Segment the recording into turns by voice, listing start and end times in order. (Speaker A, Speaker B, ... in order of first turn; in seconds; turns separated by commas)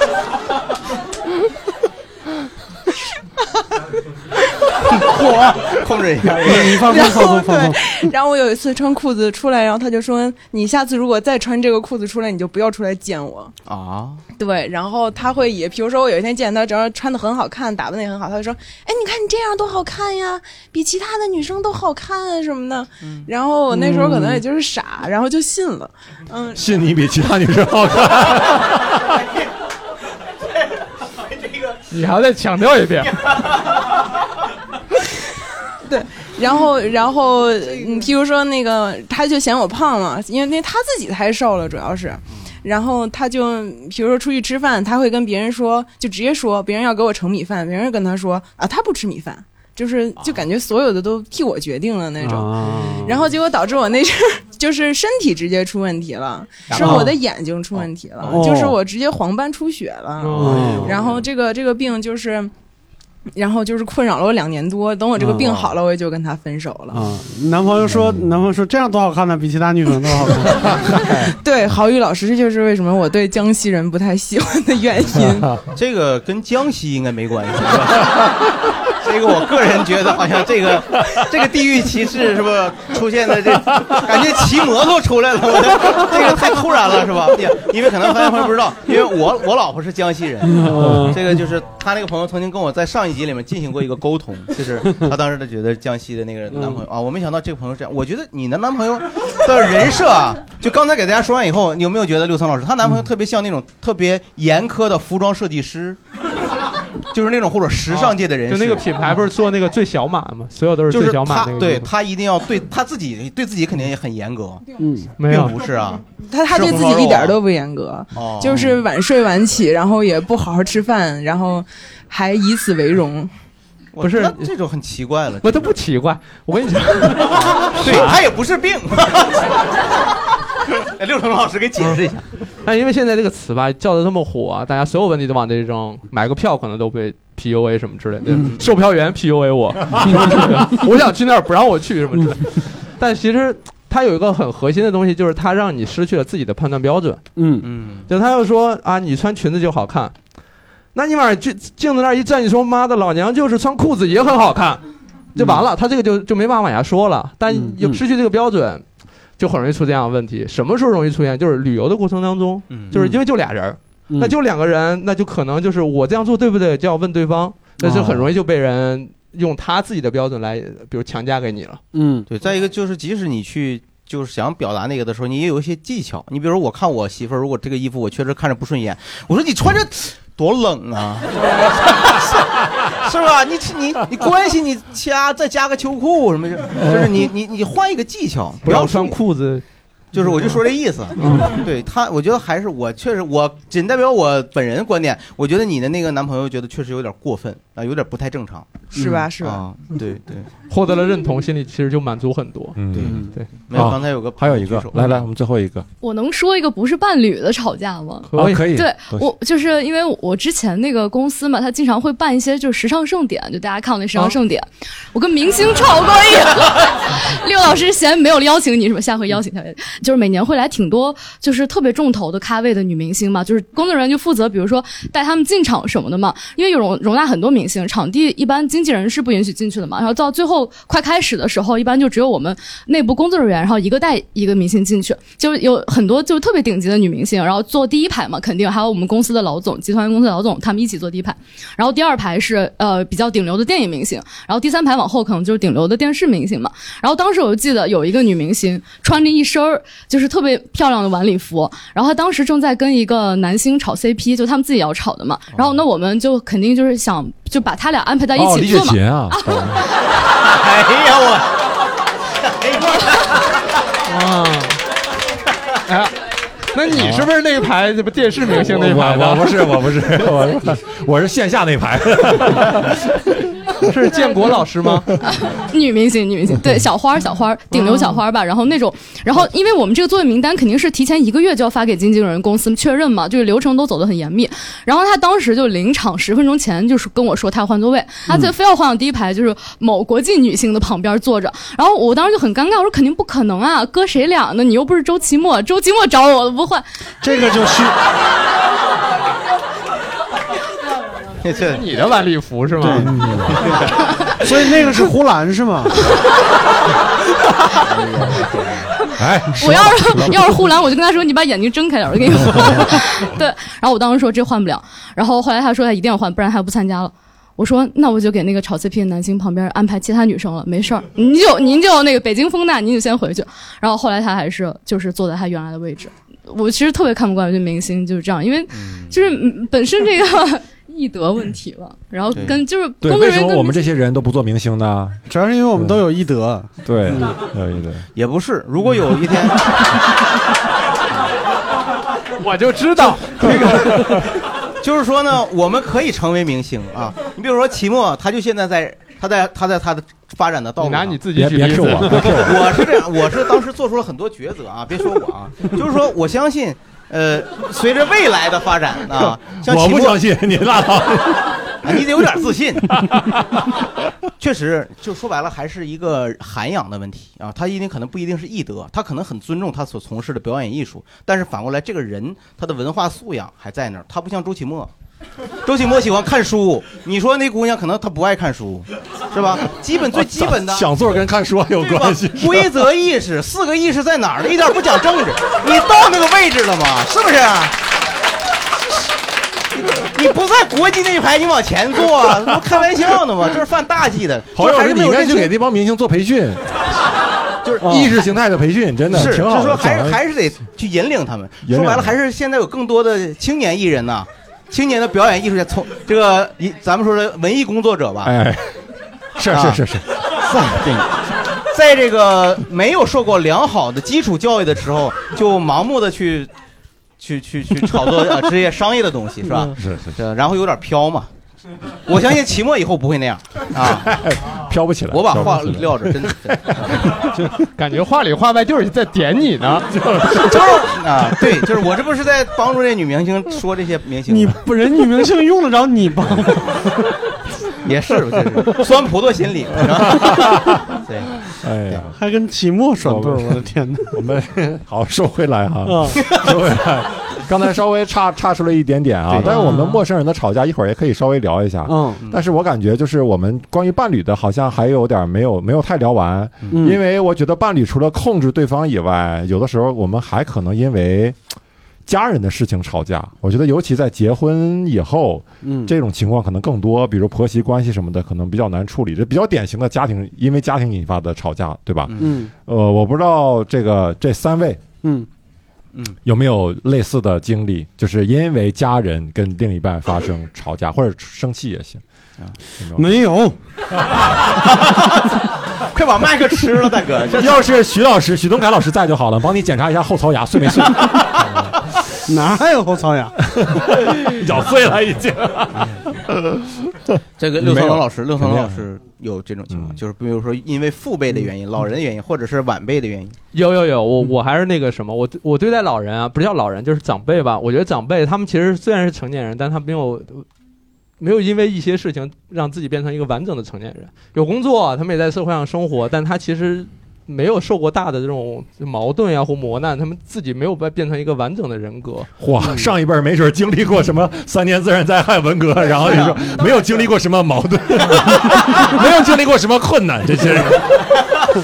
Speaker A: 4.9-7.0, Speaker B: 6.4-7.8, Speaker C: 6.8-13.5, Speaker A: 13.7-14.2, Speaker C: 14.4-26.6, Speaker A: 23.0-23.3, Speaker B: 23.8-24.4, Speaker D: 26.5-29.1, Speaker E: 31.9-33.2, Speaker C: 35.8-62.5, Speaker B: 52.2-53.2, Speaker E: 52.7-52.9, Speaker B: 56.8-57.1, Speaker B: 58.3-58.8, Speaker E: 60.2-61.0, Speaker B: 60.4-60.9, Speaker A: 60.5-61.1, Speaker C: 63.4-67.0, Speaker B: 65.2-65.5, Speaker B: 66.9-71.3, Speaker C: 71.2-75.6, Speaker A: 75.7-106.0, Speaker B: 90.5-91.2, Speaker D: 90.8-91.2, Speaker A: 107.1-108.8, Speaker E: 107.9-111.9, Speaker A: 110.9-114.7, Speaker B: 114.8-115.1, Speaker E: 115.2-115.6, Speaker A: 115.2-117.4, Speaker C: 116.2-123.3, Speaker A: 118.1-118.8, Speaker A: 123.9-125.7, Speaker E: 124.0-124.5, Speaker E: 125.4-128.2, Speaker A: 127.7-129.6, Speaker A: 130.8-132.2, Speaker E: 132.6-147.4, Speaker A: 138.3-138.7, Speaker B: 147.3-147.7, Speaker A: 147.6-148.1, Speaker E: 148.1-150.1, Speaker E: 150.9-154.8, Speaker E: 155.3-158.8, Speaker B: 155.4-155.6, Speaker B: 157.5-158.0, Speaker E: 159.4-171.8, Speaker A: 162.7-162.9, Speaker B: 162.9-163.2, Speaker B: 167.8-168.3, Speaker B: 171.9-172.3, Speaker A: 172.3-189.2, Speaker E: 188.6-189.6, Speaker A: 190.1-198.8, Speaker E: 191.2-191.5, Speaker C: 198.9-199.6, Speaker B: 198.9-199.2, Speaker A: 199.4-200.5, Speaker E: 200.7-203.4, Speaker D: 202.8-203.2, Speaker A: 202.9-205.2, Speaker D: 203.7-205.8, Speaker F: 206.0-259.9, Speaker E: 208.3-208.7, Speaker D: 208.3-209.3, Speaker A: 255.5-255.8, Speaker D: 258.3-259.9, Speaker A: 260.4-261.6, Speaker A: 262.4-263.4, Speaker E: 264.1-264.8, Speaker E: 265.9-266.1, Speaker E: 266.7-269.7, Speaker D: 266.9-267.3, Speaker D: 268.5-273.7, Speaker E: 273.8-275.1, Speaker F: 275.2-296.9, Speaker E: 277.7-278.2, Speaker B: 297.2-298.0, Speaker A: 301.4-301.8, Speaker E: 301.7-303.1, Speaker B: 302.8-303.5, Speaker D: 303.1-303.6, Speaker A: 303.5-303.9, Speaker B: 304.4-305.9, Speaker A: 307.8-308.9, Speaker D: 309.2-310.5, Speaker F: 309.6-333.9, Speaker A: 328.7-329.3, Speaker A: 332.3-332.6, Speaker D: 333.0-335.2, Speaker B: 335.3-337.4, Speaker D: 336.8-338.0, Speaker A: 338.1-339.8, Speaker E: 342.4-344.2, Speaker A: 344.8-351.2, Speaker E: 350.8-352.4, Speaker D: 351.3-352.9, Speaker A: 352.1-360.2, Speaker D: 359.6-361.6, Speaker A: 361.8-363.0, Speaker A: 364.4-374.9, Speaker A: 375.6-380.9, Speaker D: 380.1-382.8, Speaker A: 381.8-387.8, Speaker A: 389.8-395.5, Speaker D: 394.5-396.8, Speaker A: 397.6-398.1, Speaker D: 397.8-400.2, Speaker A: 399.1-408.3, Speaker D: 401.6-402.1, Speaker D: 408.2-408.8, Speaker D: 409.4-410.1, Speaker A: 409.5-416.5, Speaker A: 417.2-421.3, Speaker D: 419.6-420.2, Speaker A: 422.1-424.2, Speaker D: 423.8-427.5, Speaker A: 425.1-427.2, Speaker E: 427.7-430.0, Speaker D: 429.9-430.5, Speaker A: 430.4-434.6, Speaker B: 434.3-436.9, Speaker A: 437.8-442.0, Speaker D: 440.1-440.8, Speaker D: 441.6-442.1, Speaker B: 442.1-444.1, Speaker D: 443.0-461.4, Speaker B: 445.8-446.2, Speaker A: 449.3-449.6, Speaker B: 451.9-452.2, Speaker A: 456.6-456.9, Speaker B: 456.7-457.0, Speaker D: 462.1-474.9, Speaker B: 465.6-465.9, Speaker A: 472.1-472.3, Speaker B: 472.2-472.5, Speaker D: 476.2-482.0, Speaker B: 482.9-483.6, Speaker A: 484.6-485.0, Speaker A: 485.8-487.6, Speaker D: 487.3-491.7, Speaker B: 492.3-493.4, Speaker D: 493.6-498.8, Speaker A: 497.4-503.4, Speaker D: 499.7-500.0, Speaker E: 503.5-510.4, Speaker E: 511.2-522.3, Speaker D: 522.4-531.0